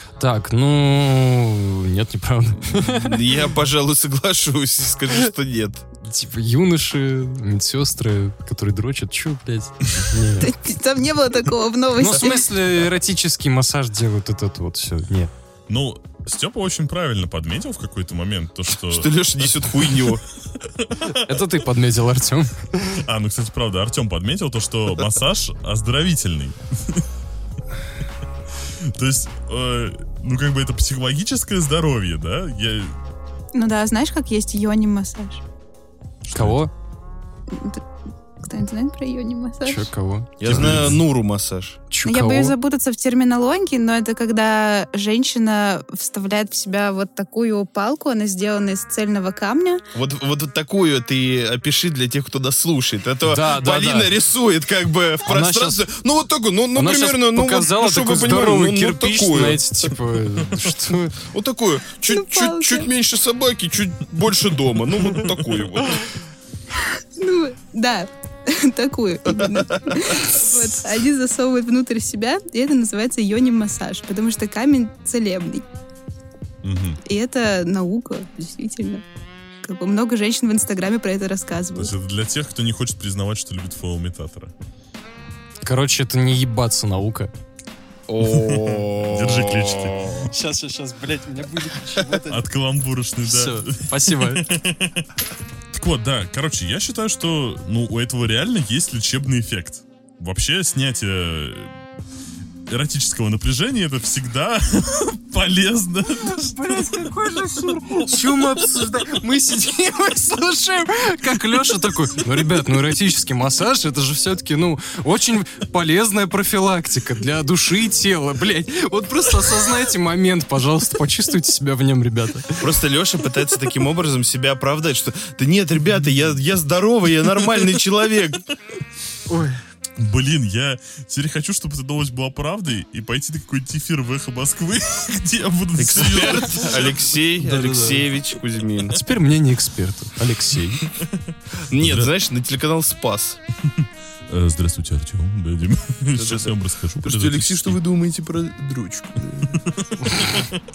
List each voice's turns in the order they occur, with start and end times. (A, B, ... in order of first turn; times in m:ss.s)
0:00.2-0:03.2 A
0:02.7-0:05.8 B
0:06.0-0:10.6 A
0:10.4-0:12.5 C
0:12.0-0:15.3 A
0:15.7-0:20.1 D
0:18.7-0:20.2 B
0:20.8-0:21.1 D
0:21.2-0:23.0 A
0:23.0-0:27.0 D
0:28.7-0:33.0 D
0:33.6-0:35.4 C
0:36.2-0:36.7 D
0:36.3-0:36.7 A
0:37.5-0:37.8 C
0:38.4-0:39.9 C
0:39.6-0:40.8 A
0:40.4-0:41.8 B
0:40.4-0:41.0 D
0:41.9-0:42.5 A
0:42.0-0:49.8 C
0:49.9-0:59.6 B
0:53.2-0:54.1 A
0:55.3-0:55.8 A
0:56.8-1:01.2 A
1:01.2-1:06.1 B
1:02.1-1:02.9 C
1:06.8-1:15.6 C
1:09.4-1:10.1 B
1:16.6-1:17.0 D
1:17.0-1:19.0 C
1:19.6-1:21.9 C
1:21.8-1:24.5 D
1:25.6-1:27.3 A
1:28.1-1:30.3 B
1:28.3-1:30.3 D
1:30.3-1:32.4 A
1:32.3-1:35.1 D
1:33.2-1:34.5 A
1:35.7-1:41.7 D
1:42.7-1:47.0 D
1:46.3-2:02.7 A
2:02.6-2:08.4 B
2:09.3-2:09.6 A
2:10.0-2:16.9 D
2:15.8-2:19.0 B
2:17.4-2:18.0 A
2:18.9-2:20.9 A
2:21.7-2:23.4 B
2:21.8-2:22.1 D
2:23.8-2:27.8 D
2:26.2-2:29.6 B
2:29.5-2:30.5 D